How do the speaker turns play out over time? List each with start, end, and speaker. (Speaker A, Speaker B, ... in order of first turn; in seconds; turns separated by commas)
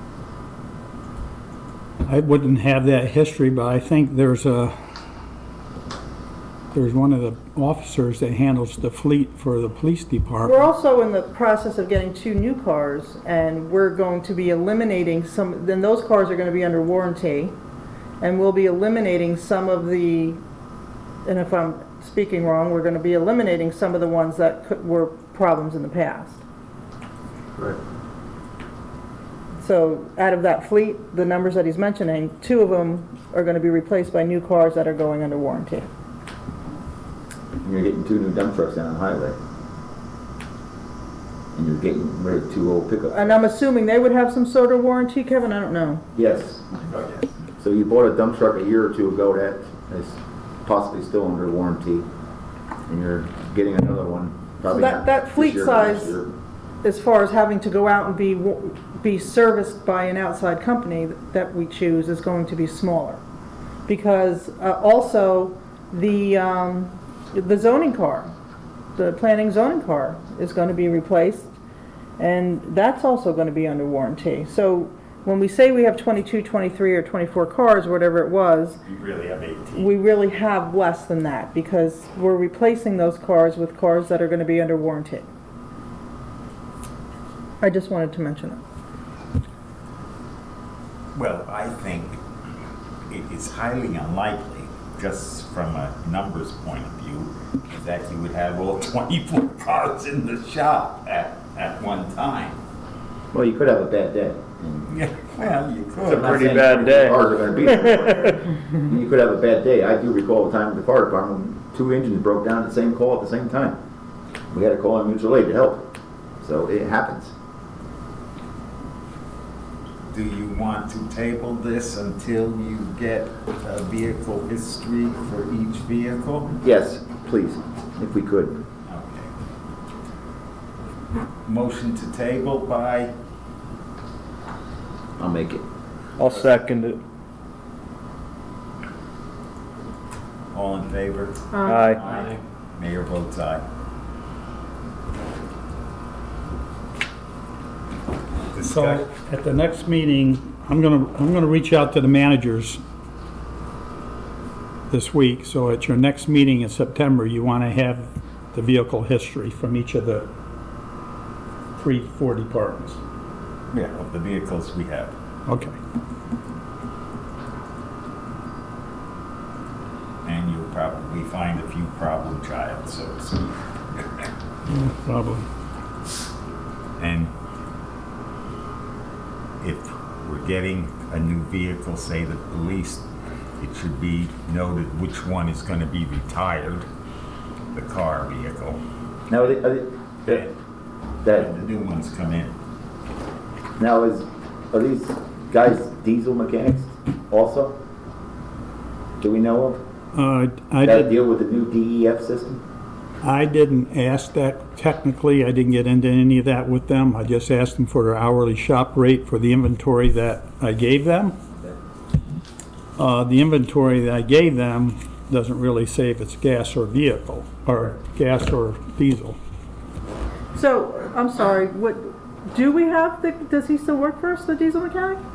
Speaker A: 2.1-4.7, Speaker A: 6.7-10.6, Speaker B: 10.4-17.6, Speaker B: 18.2-20.4, Speaker B: 21.2-26.4, Speaker B: 29.6-35.9, Speaker C: 37.6-39.4, Speaker C: 41.5-43.4, Speaker B: 43.1-46.0, Speaker C: 46.2-46.6, Speaker D: 46.9-47.3, Speaker C: 47.6-52.1, Speaker C: 52.9-56.3, Speaker B: 54.7-56.2, Speaker B: 56.8-63.2, Speaker B: 63.9-68.3, Speaker B: 69.0-71.5, Speaker B: 72.2-78.8, Speaker D: 78.8-80.0, Speaker B: 79.8-85.3, Speaker B: 87.6-88.6, Speaker D: 91.2-92.2, Speaker D: 93.1-102.6, Speaker C: 103.3-104.9, Speaker D: 104.9-106.6, Speaker C: 106.0-113.8, Speaker E: 106.1-108.3, Speaker C: 114.5-115.8, Speaker C: 116.4-117.3, Speaker D: 120.1-126.5, Speaker C: 126.6-128.6, Speaker D: 128.9-129.3, Speaker D: 131.5-133.1, Speaker C: 135.2-135.6, Speaker E: 136.2-137.0, Speaker D: 140.5-143.6, Speaker B: 141.5-142.0, Speaker E: 141.7-142.2, Speaker D: 148.6-149.1, Speaker A: 148.6-152.8, Speaker A: 154.9-160.3, Speaker A: 161.8-163.0, Speaker D: 163.7-165.1, Speaker A: 165.5-165.8, Speaker D: 170.2-174.3, Speaker A: 174.7-175.5, Speaker D: 177.0-177.3, Speaker D: 179.6-183.1, Speaker D: 183.6-186.9, Speaker D: 187.7-188.8, Speaker C: 189.3-190.4, Speaker D: 190.3-190.5, Speaker C: 191.2-191.5, Speaker D: 191.3-192.5, Speaker C: 193.8-197.8, Speaker C: 199.2-199.8, Speaker A: 200.2-201.1, Speaker C: 200.8-202.6, Speaker A: 203.2-211.4, Speaker A: 213.0-219.4, Speaker B: 220.5-225.2